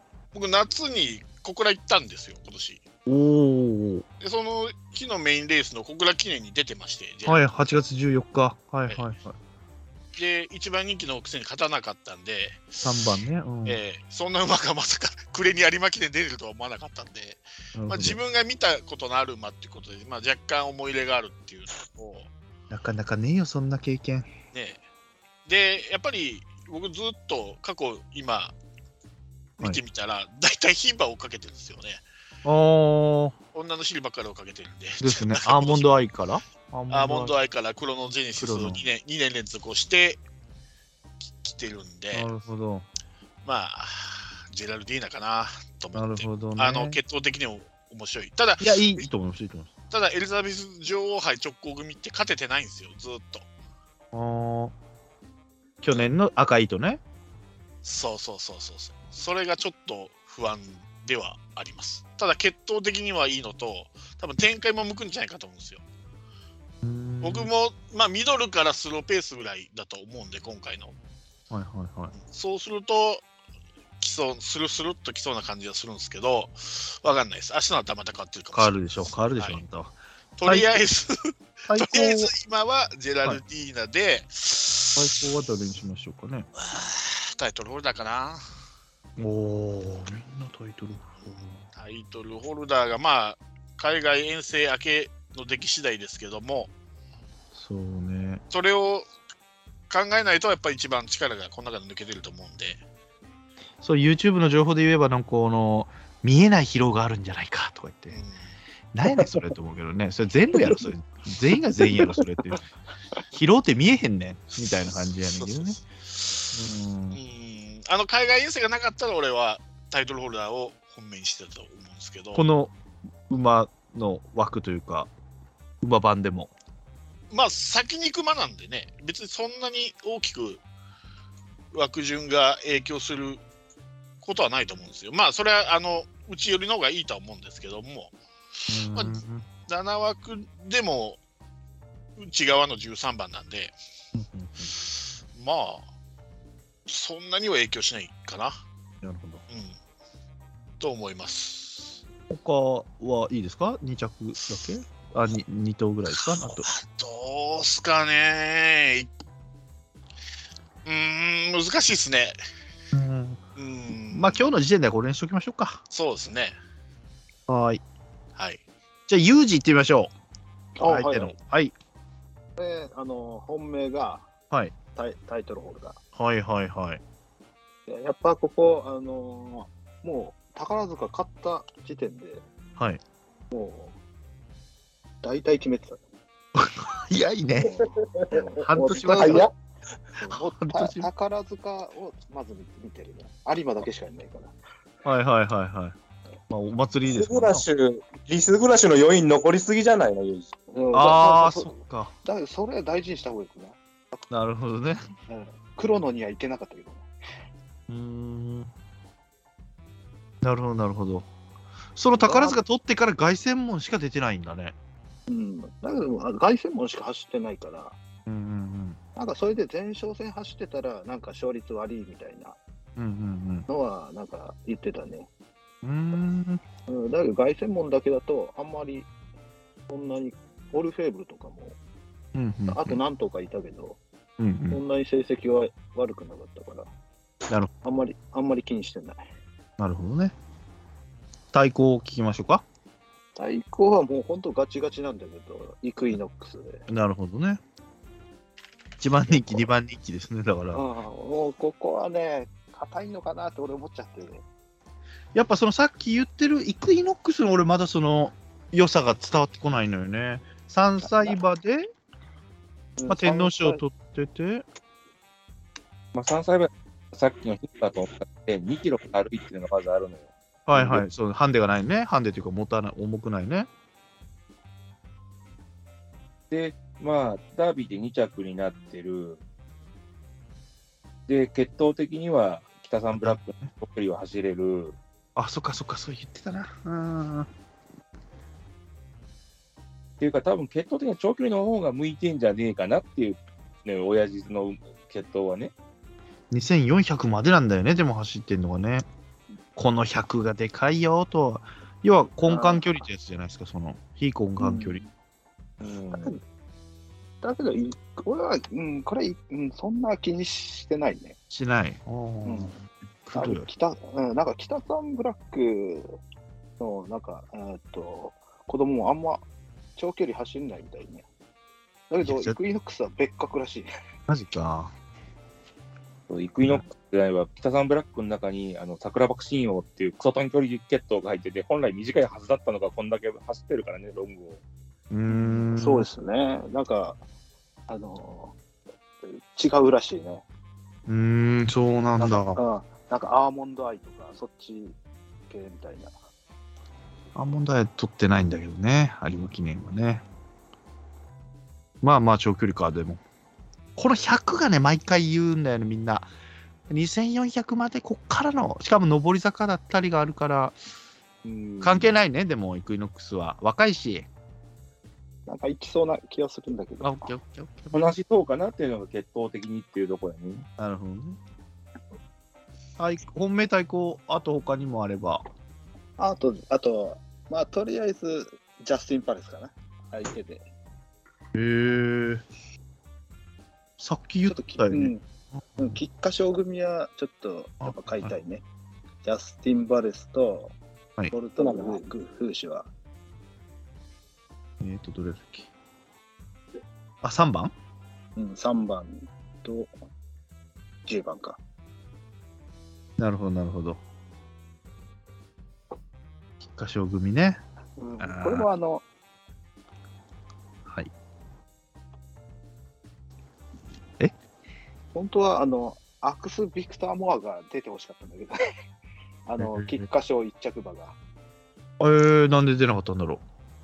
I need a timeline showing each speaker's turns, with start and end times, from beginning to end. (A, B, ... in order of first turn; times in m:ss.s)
0:00.3-0:02.8 A
0:03.0-0:04.0 B
0:04.2-0:07.4 A
0:07.3-0:09.4 B
0:10.2-0:13.1 A
0:12.8-0:13.8 B
0:13.7-0:22.3 A
0:17.8-0:18.2 B
0:22.7-0:24.3 B
0:24.5-0:24.8 A
0:25.5-0:28.5 A
0:29.6-0:32.0 A
0:32.4-0:33.4 B
0:33.5-0:36.0 A
0:35.0-0:37.3 B
0:36.9-0:40.2 A
0:38.4-0:38.8 B
0:41.3-0:42.3 A
0:42.1-0:42.8 B
0:43.4-0:49.0 A
0:45.9-0:47.0 B
0:48.6-0:49.7 B
0:49.9-0:53.5 A
0:54.1-0:54.7 B
0:55.8-0:57.0 B
0:57.8-1:05.8 A
1:06.8-1:07.5 B
1:07.2-1:10.9 A
1:11.5-1:12.2 B
1:12.2-1:13.2 A
1:14.0-1:19.6 A
1:18.5-1:20.7 B
1:20.4-1:25.0 A
1:21.7-1:22.3 B
1:25.0-1:26.5 B
1:26.6-1:28.4 A
1:29.2-1:31.6 B
1:31.8-1:36.7 A
1:37.5-1:38.4 B
1:38.5-1:39.1 A
1:39.9-1:42.8 A
1:43.8-1:48.2 B
1:48.1-1:48.4 A
1:48.9-1:52.6 B
1:53.3-1:55.8 B
1:55.4-1:56.5 A
1:56.5-1:57.2 B
1:57.1-2:02.5 A
2:02.4-2:02.7 B
2:03.3-2:05.1 B
2:05.8-2:06.5 B
2:07.3-2:10.6 A
2:11.7-2:13.4 A
2:14.2-2:18.1 A
2:18.7-2:19.4 B
2:18.9-2:19.2 A
2:19.7-2:21.2 A
2:22.2-2:23.8 A
2:24.2-2:24.8 B
2:25.3-2:25.8 A
2:26.9-2:28.6 A
2:29.0-2:29.4 B
2:29.5-2:29.8 A
2:30.8-2:32.0 A
2:32.3-2:36.7 B
2:36.3-2:39.1 A
2:40.8-2:42.4 A
2:42.9-2:43.4 B
2:43.6-2:44.5 A
2:44.1-2:45.8 B
2:45.9-2:46.6 A
2:47.5-2:47.8 B
2:48.4-2:48.6 A
2:49.1-2:50.1 B
2:50.8-2:51.4 C
2:50.8-2:51.7 B
2:52.6-2:54.3 C
2:54.9-2:56.0 C
2:56.2-2:57.0 B
2:57.9-3:02.4 C
3:03.5-3:04.0 C
3:05.2-3:06.0 C
3:06.6-3:07.8 B
3:07.6-3:09.5 C
3:08.6-3:09.5 B
3:08.9-3:09.5 D
3:10.2-3:14.5 C
3:10.3-3:11.1 B
3:15.0-3:16.0 B
3:16.5-3:17.7 B
3:17.1-3:20.5 D
3:20.7-3:24.2 C
3:20.9-3:22.1 B
3:24.3-3:25.0 B
3:25.3-3:27.1 C
3:27.9-3:28.7 B
3:30.4-3:31.3 B
3:32.0-3:34.8 B
3:32.2-3:32.6 C
3:35.3-3:38.0 C
3:38.3-3:39.0 B
3:39.2-3:42.6 C
3:43.0-3:43.7 B
3:43.7-3:45.3 C
3:45.8-3:46.6 B
3:46.9-3:49.1 C
3:49.9-3:51.8 C
3:52.3-3:53.0 B
3:52.7-3:54.0 C
3:54.4-3:54.8 B
3:54.7-3:56.9 C
3:57.8-3:59.2 C
3:59.8-4:00.3 B
4:01.5-4:02.6 B
4:03.4-4:06.8 C
4:06.9-4:07.6 B
4:09.0-4:10.8 B
4:10.7-4:14.4 C
4:15.4-4:21.9 B
4:21.0-4:21.4 C
4:23.0-4:23.8 C
4:23.1-4:24.6 B
4:26.1-4:31.0 E
4:30.7-4:33.7 B
4:36.5-4:39.4 E
4:41.3-4:45.0 E
4:43.1-4:43.7 B
4:45.4-4:47.5 B
4:50.2-4:55.7 E
4:56.5-4:59.1 B
4:59.8-5:05.0 B
5:02.4-5:03.0 C
5:04.6-5:05.1 C
5:05.8-5:06.4 E
5:06.1-5:06.4 C
5:07.4-5:11.4 C
5:11.5-5:13.7 B
5:12.4-5:12.8 C
5:13.3-5:16.2 C
5:16.8-5:19.4 C
5:20.0-5:21.3 C
5:22.1-5:23.9 C
5:22.2-5:22.6 B
5:24.3-5:24.9 B
5:26.3-5:34.6 E
5:35.1-5:36.1 B
5:35.3-5:37.2 C
5:37.9-5:38.6 C
5:39.2-5:40.4 C
5:41.1-5:42.6 B
5:42.2-5:45.0 C
5:45.5-5:46.1 C
5:47.4-5:50.2 B
5:52.0-5:53.2 B
5:54.0-5:56.3 B
5:56.9-6:00.8 B
6:01.4-6:02.1 E
6:01.8-6:04.3 B
6:05.5-6:07.3 C
6:07.0-6:08.1 B
6:07.9-6:10.7 E
6:10.8-6:11.4 B
6:13.0-6:15.4 B
6:16.2-6:20.7 C
6:21.6-6:22.4 B
6:24.0-6:25.1 B
6:24.5-6:25.2 C
6:25.8-6:28.6 C
6:27.8-6:28.4 B
6:29.2-6:30.8 C
6:31.3-6:32.9 C
6:31.6-6:32.0 D
6:34.8-6:35.7 B
6:37.2-6:37.7 B
6:38.4-6:39.9 C
6:41.1-6:41.6 C
6:43.2-6:44.0 B
6:46.6-6:47.6 B
6:48.0-6:49.0 C
6:48.2-6:48.7 B
6:50.9-6:51.1 B
6:55.1-6:58.6 C
6:59.5-7:01.2 C
6:59.6-7:00.1 B
7:02.0-7:03.4 B